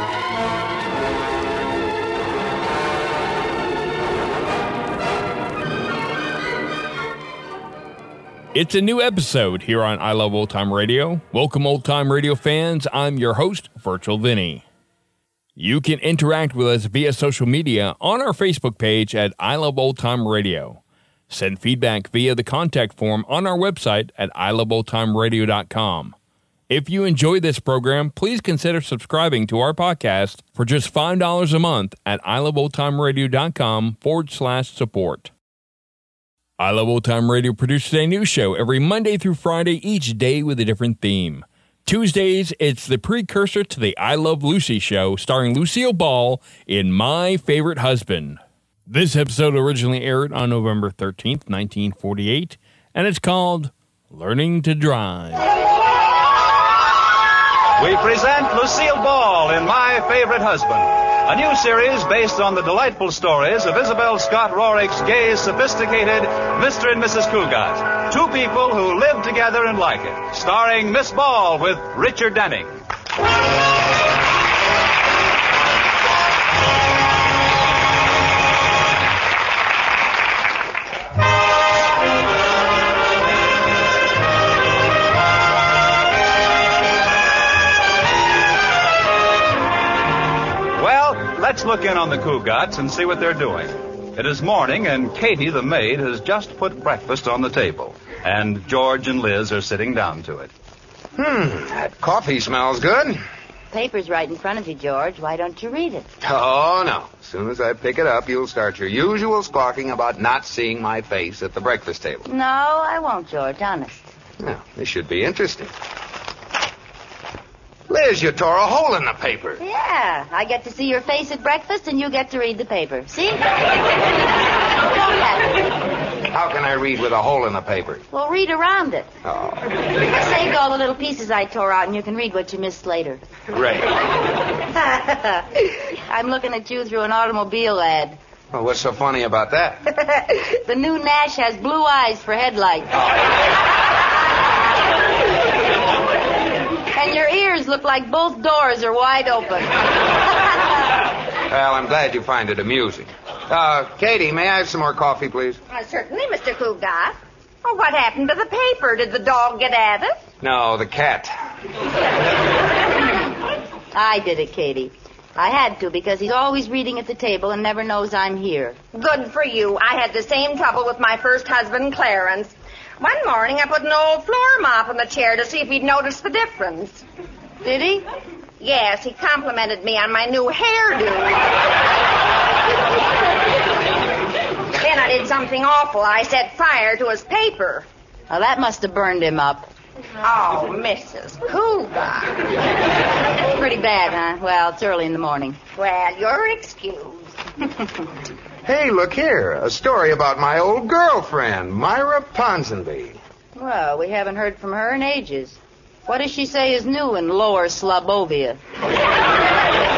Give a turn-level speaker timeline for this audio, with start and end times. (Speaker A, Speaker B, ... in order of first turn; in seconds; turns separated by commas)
Speaker A: 8.5-14.6, Speaker A: 15.6-26.1, Speaker A: 26.7-35.3, Speaker A: 36.6-55.5, Speaker B: 57.8-72.7, Speaker B: 90.8-100.5, Speaker C: 101.1-103.2, Speaker D: 103.7-106.1, Speaker C: 106.2-112.2, Speaker D: 112.2-114.1, Speaker C: 114.4-115.7, Speaker C: 117.9-119.6, Speaker D: 119.6-123.4, Speaker D: 124.9-125.6, Speaker C: 126.3-128.0, Speaker D: 128.1-129.1, Speaker C: 129.2-129.7, Speaker D: 130.1-133.2, Speaker C: 133.5-133.9, Speaker D: 134.8-138.2, Speaker C: 138.5-140.0, Speaker D: 140.4-142.9, Speaker D: 146.9-149.8, Speaker C: 151.5-155.6, Speaker E: 155.7-160.2, Speaker C: 160.4-161.3, Speaker D: 163.9-168.8, Speaker E: 168.9-177.0, Speaker D: 177.6-178.0, Speaker E: 178.6-181.5, Speaker E: 184.8-187.9, Speaker D: 188.3-189.7, Speaker E: 190.2-192.5, Speaker D: 193.4-195.6, Speaker E: 195.8-197.3, Speaker C: 198.6-203.2, Speaker D: 203.5-208.6